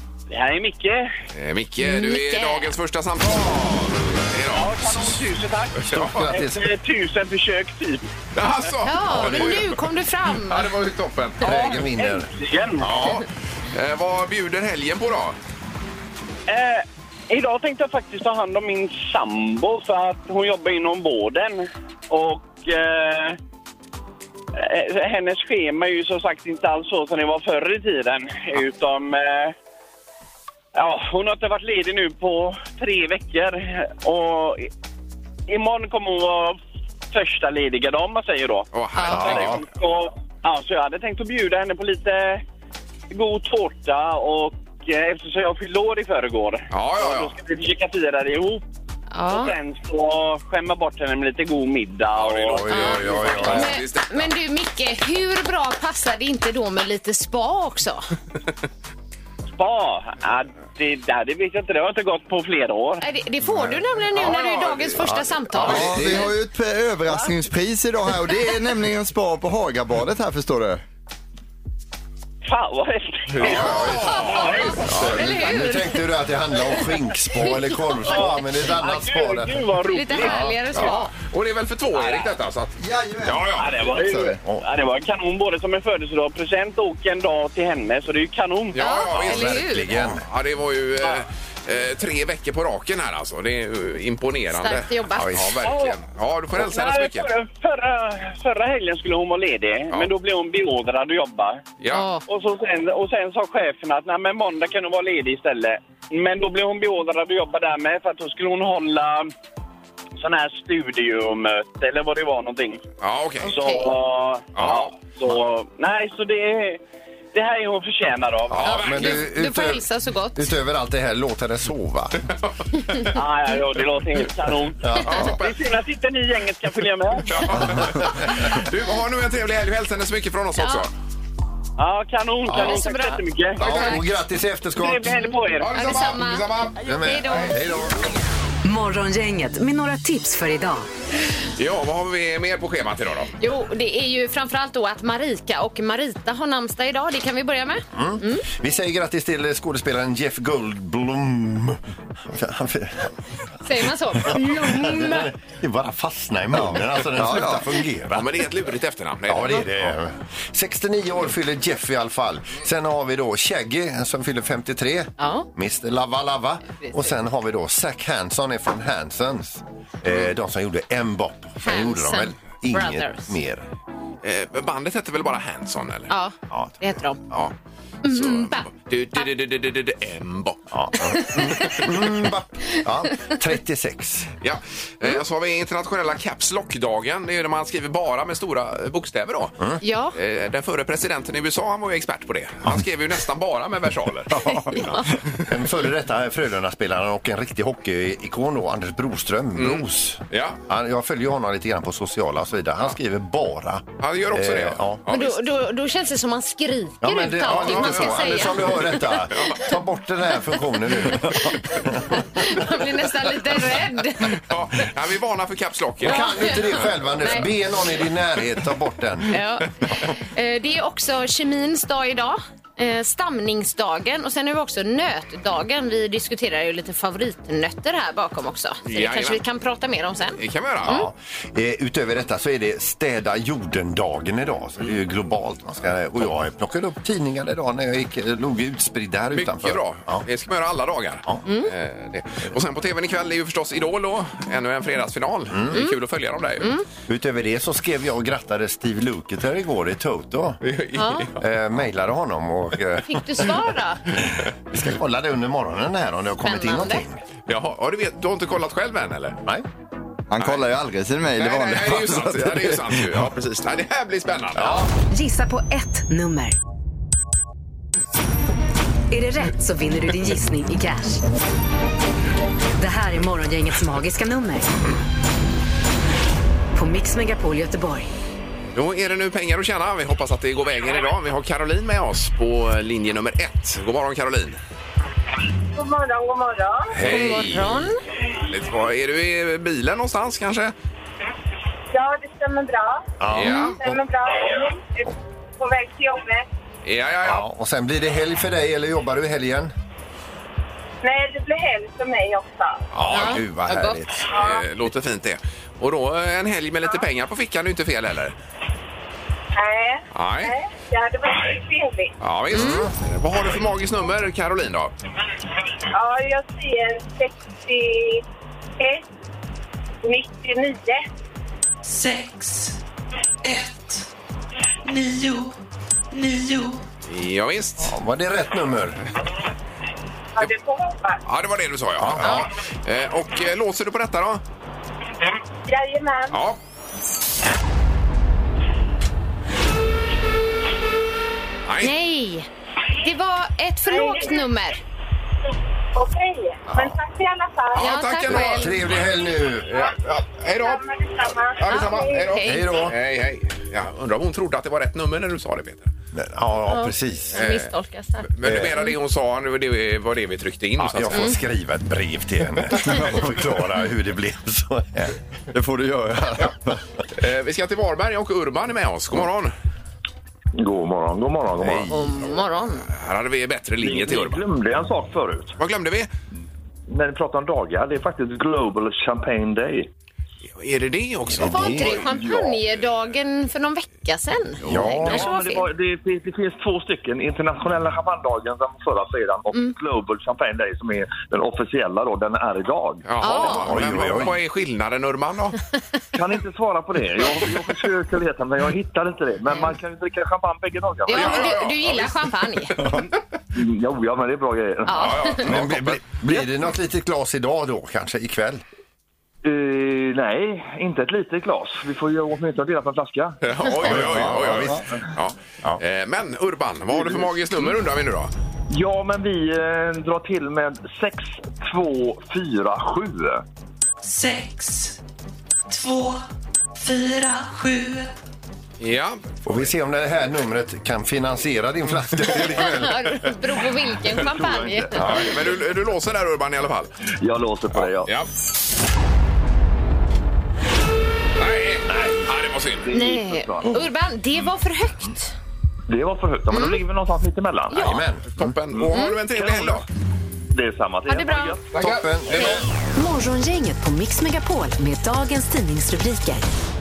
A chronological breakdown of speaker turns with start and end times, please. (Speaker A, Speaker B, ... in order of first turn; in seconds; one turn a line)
Speaker A: 0.3-1.1
Speaker B: 1.3-5.1
Speaker C: 1.8-2.7
Speaker A: 4.5-8.1
Speaker B: 5.8-6.3
Speaker D: 5.9-6.7
Speaker B: 8.3-11.7
Speaker C: 8.8-10.7
Speaker D: 9.1-9.5
Speaker D: 11.4-12.3
Speaker A: 11.5-13.2
Speaker B: 12.8-15.3
Speaker A: 16.5-23.4
Speaker A: 24.5-29.5
Speaker A: 30.7-34.7
Speaker A: 35.5-42.4
Speaker B: 38.7-39.6
Speaker D: 39.1-39.6
Speaker A: 43.1-48.6
Speaker B: 46.7-47.3
Speaker C: 49.1-49.5
Speaker A: 49.3-53.2
Speaker B: 52.2-54.3
Speaker D: 52.4-53.8
Speaker C: 52.7-58.1
Speaker A: 59.5-63.0
Speaker C: 63.0-66.0
Speaker B: 64.1-66.0
Speaker D: 65.0-66.3
Speaker E: 65.6-70.8
Speaker A: 72.5-74.8
Speaker B: 73.3-75.3
Speaker D: 73.4-80.6
Speaker C: 74.0-76.0
Speaker C: 77.4-78.1
Speaker A: 78.1-80.5
Speaker C: 79.9-81.1
Speaker B: 80.7-83.9
Speaker A: 82.0-82.3
Speaker E: 82.8-84.3
Speaker A: 83.5-88.8
Speaker B: 88.7-97.3
Speaker C: 88.8-89.9
Speaker D: 89.1-90.2
Speaker C: 94.5-95.3
Speaker D: 95.1-95.5
Speaker A: 95.6-96.0
Speaker A: 96.5-101.7
Speaker B: 101.8-102.1
Speaker C: 101.9-102.2
Speaker A: 102.2-109.3
Speaker A: 110.2-112.8
Speaker B: 113.0-113.5
Speaker C: 113.5-113.9
Speaker A: 113.5-116.8
Speaker B: 114.5-114.9
Speaker A: 117.3-118.7
Speaker B: 118.5-119.2
Speaker D: 118.6-122.2
Speaker C: 118.6-120.5
Speaker B: 122.4-123.1
Speaker A: 123.1-127.6
Speaker D: 124.8-125.3
Speaker B: 125.0-125.6
Speaker B: 127.3-130.9
Speaker D: 127.5-128.4
Speaker C: 130.6-130.9
Speaker A: 131.8-133.9
Speaker D: 132.5-132.8
Speaker C: 132.5-133.9
Speaker D: 133.6-135.2
Speaker B: 133.6-133.9
Speaker A: 134.8-135.7
Speaker C: 135.2-137.6
Speaker B: 135.6-137.5
Speaker D: 136.8-138.0
Speaker F: 138.6-140.8
Speaker B: 141.6-143.3
Speaker C: 143.4-148.4
Speaker D: 147.9-153.1
Speaker C: 153.6-155.3
Speaker D: 153.8-158.4
Speaker E: 156.5-157.7
Speaker B: 158.1-159.9
Speaker D: 159.3-173.7
Speaker C: 165.2-165.5
Speaker C: 166.8-167.1
Speaker C: 171.6-173.3
Speaker B: 174.2-176.1
Speaker C: 176.1-177.2
Speaker C: 178.0-178.6
Speaker B: 178.1-180.7
Speaker D: 180.7-184.3
Speaker C: 181.2-181.9
Speaker B: 184.4-195.1
Speaker C: 189.8-190.2
Speaker D: 194.4-205.0
Speaker C: 194.4-195.0
Speaker B: 199.6-200.6
Speaker B: 204.0-205.4
Speaker C: 205.1-209.7
Speaker D: 207.0-212.7
Speaker E: 207.5-208.0
Speaker B: 207.5-208.6
Speaker B: 209.3-209.6
Speaker C: 211.0-214.4
Speaker B: 214.2-216.7
Speaker D: 216.0-219.3
Speaker C: 216.1-217.5
Speaker C: 219.3-231.1
Speaker B: 228.8-229.4
Speaker B: 230.4-230.9
Speaker D: 230.8-240.2
Speaker B: 239.3-246.7
Speaker C: 241.4-241.7
Speaker D: 245.5-245.8
Speaker C: 246.6-246.8
Speaker D: 247.1-250.6
Speaker B: 250.6-251.3
Speaker C: 250.9-251.3
Speaker D: 251.4-253.6
Speaker C: 253.0-254.0
Speaker D: 254.1-257.2
Speaker C: 256.4-257.0
Speaker B: 257.5-259.4
Speaker E: 260.3-262.9
Speaker B: 260.4-260.7
Speaker B: 261.4-264.8
Speaker D: 264.5-264.9
Speaker F: 265.1-266.6
Speaker F: 269.1-271.2
Speaker F: 272.8-274.7
Speaker F: 276.7-278.1
Speaker B: 278.7-284.6
Speaker G: 285.7-286.9
Speaker D: 286.9-287.8
Speaker B: 287.0-287.6
Speaker C: 287.0-288.0
Speaker B: 288.5-290.7
Speaker G: 291.9-293.1
Speaker D: 293.2-294.0
Speaker B: 293.3-293.8
Speaker C: 293.5-293.7
Speaker G: 293.8-296.4
Speaker B: 296.8-297.4
Speaker D: 297.2-299.7
Speaker G: 301.0-302.8
Speaker B: 302.9-303.6
Speaker D: 302.9-304.3
Speaker C: 303.1-304.0
Speaker B: 304.2-308.3
Speaker G: 309.5-312.1
Speaker B: 310.1-310.5
Speaker B: 312.2-314.9
Speaker D: 312.5-312.9
Speaker C: 312.5-312.8
Speaker G: 315.9-318.2
Speaker G: 318.8-319.1
Speaker G: 320.0-321.1
Speaker H: 321.8-322.8
Speaker H: 323.4-324.0
Speaker H: 324.8-325.6
Speaker H: 326.1-326.8
Speaker B: 327.1-327.9
Speaker D: 327.8-329.0
Speaker G: 330.4-331.2
Speaker B: 331.2-334.4
Speaker D: 332.0-332.4
Speaker G: 335.6-336.4
Speaker B: 336.3-336.6
Speaker B: 341.7-341.9
Speaker C: 341.8-342.5
Speaker C: 343.0-344.8
Speaker G: 343.9-344.4
Speaker G: 345.9-348.0
Speaker D: 346.7-346.9
Speaker B: 347.7-349.1
Speaker C: 347.7-348.8
Speaker D: 348.2-349.8
Speaker B: 349.6-350.8
Speaker G: 350.6-352.2
Speaker B: 351.6-355.9
Speaker C: 351.7-352.8
Speaker D: 352.4-353.0
Speaker D: 356.1-357.4
Speaker C: 356.7-358.9
Speaker B: 357.3-357.7
Speaker B: 358.3-361.4
Speaker D: 358.4-358.8
Speaker D: 360.8-365.1
Speaker E: 365.5-366.8
Speaker B: 367.1-369.5
Speaker I: 370.5-371.9
Speaker C: 371.9-372.9
Speaker B: 372.8-374.4
Speaker I: 373.8-375.6
Speaker B: 375.6-376.1
Speaker I: 376.9-379.9
Speaker B: 380.6-381.8
Speaker D: 381.4-381.9
Speaker C: 381.4-385.7
Speaker I: 381.6-382.6
Speaker D: 384.6-385.3
Speaker I: 384.8-393.1
Speaker B: 393.1-395.6
Speaker C: 393.2-393.8
Speaker D: 393.4-394.3
Speaker I: 396.1-401.5
Speaker C: 401.1-402.9
Speaker B: 401.1-403.0
Speaker I: 403.5-405.4
Speaker C: 404.9-405.4
Speaker B: 404.9-406.1
Speaker D: 405.4-408.6
Speaker I: 409.4-413.4
Speaker B: 413.4-418.3
Speaker D: 413.8-414.8
Speaker I: 418.7-423.4
Speaker H: 424.0-425.0
Speaker H: 425.7-426.2
Speaker H: 426.8-428.1
Speaker B: 428.8-429.4
Speaker D: 429.4-433.1
Speaker C: 432.6-435.1
Speaker I: 434.1-435.4
Speaker B: 435.0-436.9
Speaker I: 437.2-438.1
Speaker B: 441.4-442.9
Speaker I: 442.8-443.8
Speaker C: 442.9-445.3
Speaker I: 445.9-447.9
Speaker C: 446.5-446.8
Speaker C: 447.7-448.0
Speaker D: 447.7-448.5
Speaker B: 448.3-449.9
Speaker C: 448.9-449.2
Speaker I: 449.5-449.8
Speaker I: 450.5-452.0
Speaker C: 451.1-451.6
Speaker B: 451.7-452.6
Speaker D: 451.7-452.6
Speaker F: 452.9-456.4